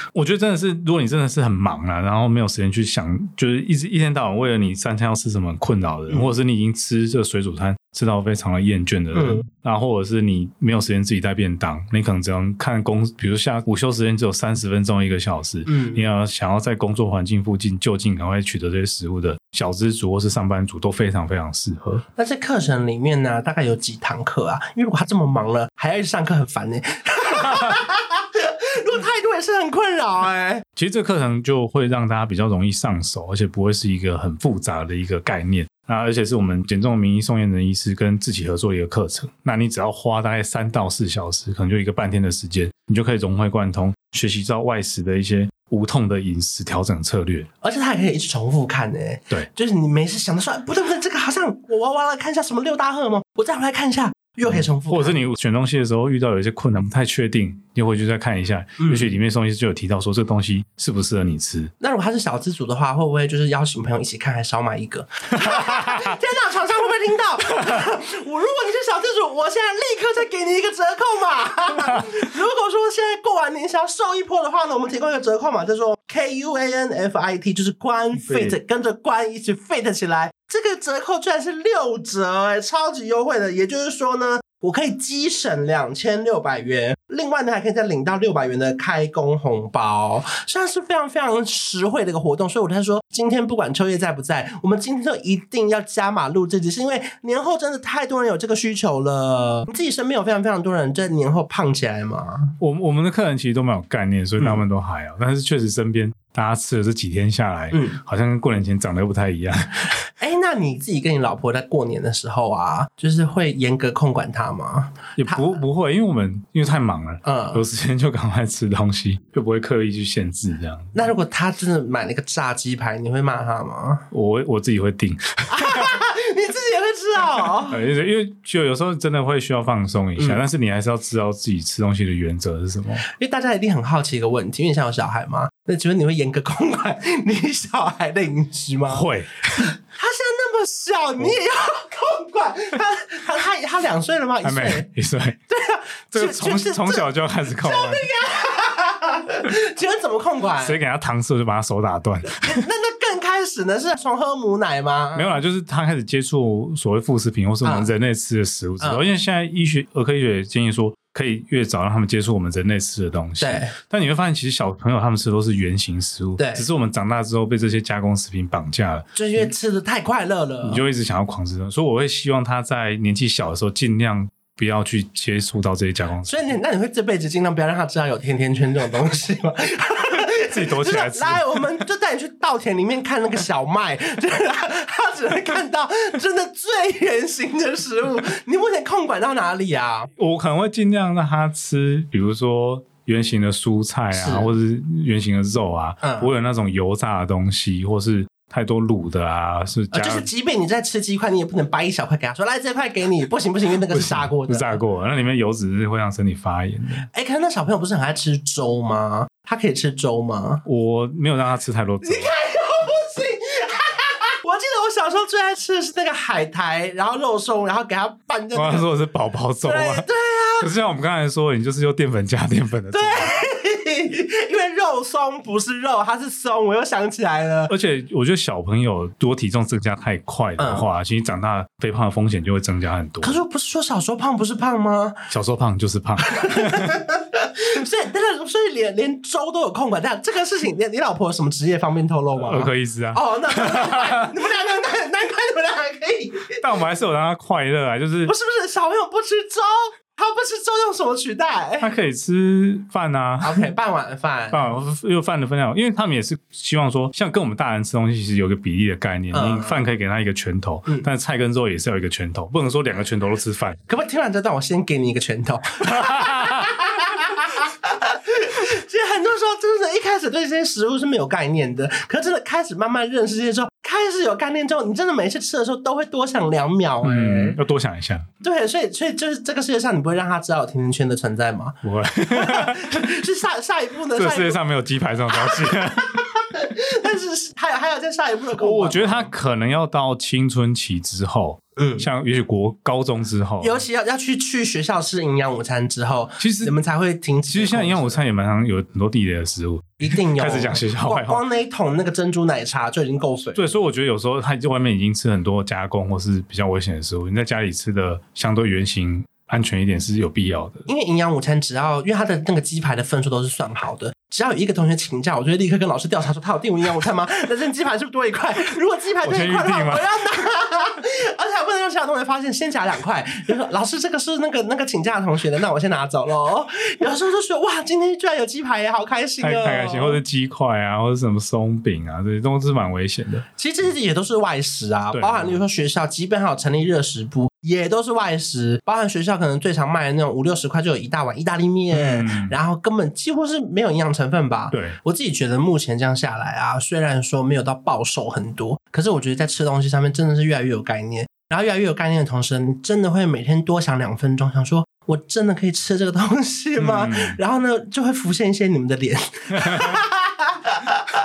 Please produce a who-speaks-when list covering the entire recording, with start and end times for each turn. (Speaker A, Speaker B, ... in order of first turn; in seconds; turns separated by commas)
Speaker A: 0.1-22.1, Speaker B: 9.1-9.4, Speaker B: 15.7-16.0, Speaker B: 22.1-30.6, Speaker A: 30.8-47.5, Speaker B: 47.6-55.2, Speaker A: 54.5-61.7, Speaker B: 58.8-59.1, Speaker B: 61.8-102.5, Speaker A: 65.4-66.1, Speaker A: 78.2-78.5, Speaker A: 102.6-110.0, Speaker B: 107.7-108.0, Speaker B: 110.2-115.6, Speaker A: 115.2-121.0, Speaker B: 117.2-117.6, Speaker B: 120.9-124.1, Speaker A: 124.1-125.9, Speaker B: 125.5-127.8, Speaker A: 127.7-133.1, Speaker B: 133.1-144.9, Speaker A: 138.9-139.7, Speaker A: 144.4-145.4, Speaker B: 145.5-150.8, Speaker A: 146.1-148.1, Speaker A: 150.6-152.6, Speaker B: 152.3-155.3, Speaker A: 155.1-169.5, Speaker B: 157.6-157.9, Speaker B: 163.4-163.7, Speaker B: 166.4-166.6, Speaker B: 169.1-170.8, Speaker A: 170.6-176.5, Speaker B: 176.3-190.1, Speaker A: 180.4-181.6, Speaker A: 190.2-200.3, Speaker B: 194.1-194.5, Speaker B: 196.0-196.3, Speaker B: 199.9-204.8, Speaker A: 203.9-207.1, Speaker B: 207.1-210.6, Speaker A: 210.6-212.3, Speaker B: 212.0-218.9, Speaker A: 218.5-220.1, Speaker B: 219.6-220.7, Speaker A: 220.6-223.4, Speaker B: 222.9-227.7, Speaker A: 227.7-233.4, Speaker B: 230.6-230.8, Speaker B: 233.2-235.3, Speaker A: 235.3-237.0, Speaker B: 236.3-246.6, Speaker A: 242.4-244.3, Speaker A: 246.6-248.3, Speaker B: 248.3-251.9, Speaker A: 251.8-253.6, Speaker B: 253.4-254.7, Speaker A: 254.5-263.8, Speaker B: 259.3-259.8, Speaker B: 263.9-277.6, Speaker A: 265.8-266.7, Speaker A: 277.0-278.3, Speaker B: 278.4-284.6, Speaker A: 281.8-283.1, Speaker A: 284.1-286.2, Speaker B: 285.4-289.3, Speaker A: 288.6-293.8, Speaker B: 291.8-292.1, Speaker B: 293.6-298.2, Speaker A: 296.4-296.7, Speaker A: 297.5-301.4, Speaker B: 300.0-303.6, Speaker A: 303.6-310.9, Speaker B: 310.9-330.2, Speaker A: 319.2-320.1, Speaker A: 329.4-333.4, Speaker B: 333.6-360.9, Speaker A: 335.1-335.6, Speaker A: 341.9-342.6, Speaker A: 344.7-345.0, Speaker A: 356.8-357.4, Speaker A: 359.6-360.0